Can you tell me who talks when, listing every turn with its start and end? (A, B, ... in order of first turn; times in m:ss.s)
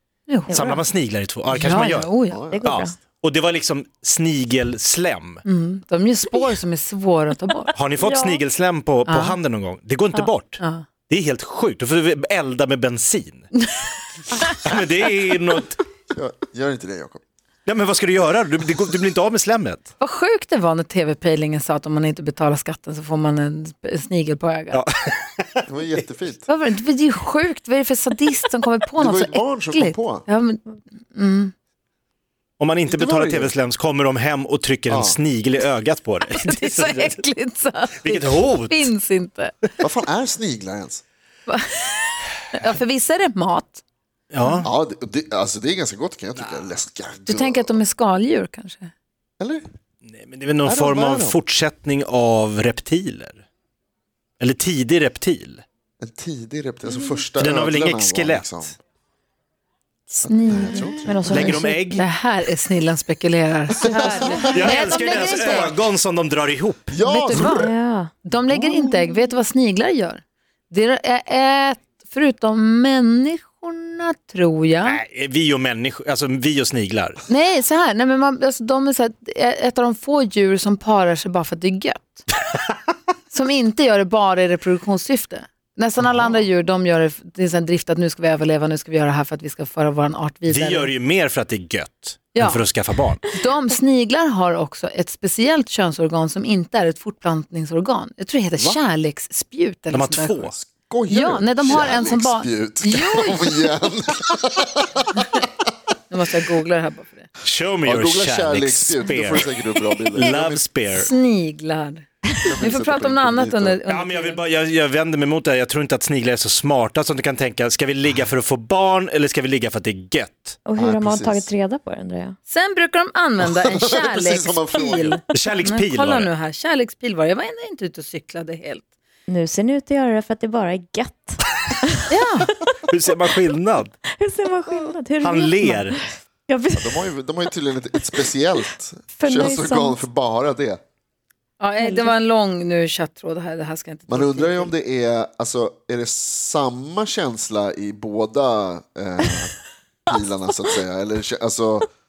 0:00.3-0:00.8 A
0:00.5-0:00.8 B
0:00.5-0:02.1 C
0:01.5-0:02.4 A
0:02.3-0:02.7 D
0:02.5-0:03.0 B
0:02.6-0:05.4 C
0:05.4-0:07.7 A
0:07.8-0:13.5 C
0:08.0-0:08.4 B
0:09.1-0:09.4 A
0:10.6-0:10.8 A
0:14.3-0:14.6 B
0:14.4-0:15.8 C
0:16.1-0:17.2 D
0:17.6-0:19.9 C
0:20.0-0:24.8 A
0:24.7-0:25.7 C
0:25.7-0:26.4 D
0:26.4-0:31.5 A
0:29.0-0:30.2 D
0:32.6-0:37.2 C
0:32.9-0:33.5 D
0:34.9-0:35.2 D
0:36.3-0:39.6 A
0:38.0-0:38.9 C
0:39.8-0:41.0 D
0:41.5-0:43.8 A
0:44.3-0:44.7 C
0:44.6-0:47.8 D
0:47.3-0:48.9 A
0:50.2-0:53.4 C
0:50.6-0:51.4 D
0:54.4-0:55.6 C
0:56.0-0:58.7 D
0:57.4-0:58.7 C
1:00.1-1:01.0 A
1:00.2-1:01.6 D
1:00.7-1:02.0 B
1:01.3-1:02.0 C
1:01.9-1:05.8 A
1:03.9-1:04.7 D
1:04.5-1:06.9 C
1:06.9-1:07.7 D
1:07.0-1:07.7 A
1:07.3-1:08.1 B
1:08.2-1:15.0 A
1:08.8-1:09.3 B
1:14.8-1:17.2 C
1:17.3-1:22.2 A
1:23.3-1:30.9 A
1:30.5-1:33.3 C
1:32.3-1:32.6 A
1:33.3-1:40.5 A
1:39.9-1:40.6 C
1:40.6-1:45.5 D
1:41.1-1:43.5 A
1:46.1-1:47.3 A
1:47.4-1:49.5 C
1:47.8-1:50.6 D
1:50.2-1:51.1 C
1:50.9-1:52.1 A
1:52.4-1:53.8 D
1:52.6-1:54.4 A
1:53.9-2:00.6 C
2:00.6-2:02.4 B
2:00.8-2:01.5 D
2:02.5-2:08.9 A
2:03.6-2:05.2 D
2:05.3-2:06.3 C
2:09.3-2:12.6 B
2:12.1-2:12.5 A
2:12.9-2:13.9 C
2:14.2-2:17.1 B
2:15.2-2:16.0 C
2:16.8-2:20.8 D
2:19.2-2:20.0 B
2:21.6-2:24.7 A
2:21.8-2:22.2 B
2:24.1-2:29.5 D
2:30.1-2:31.9 D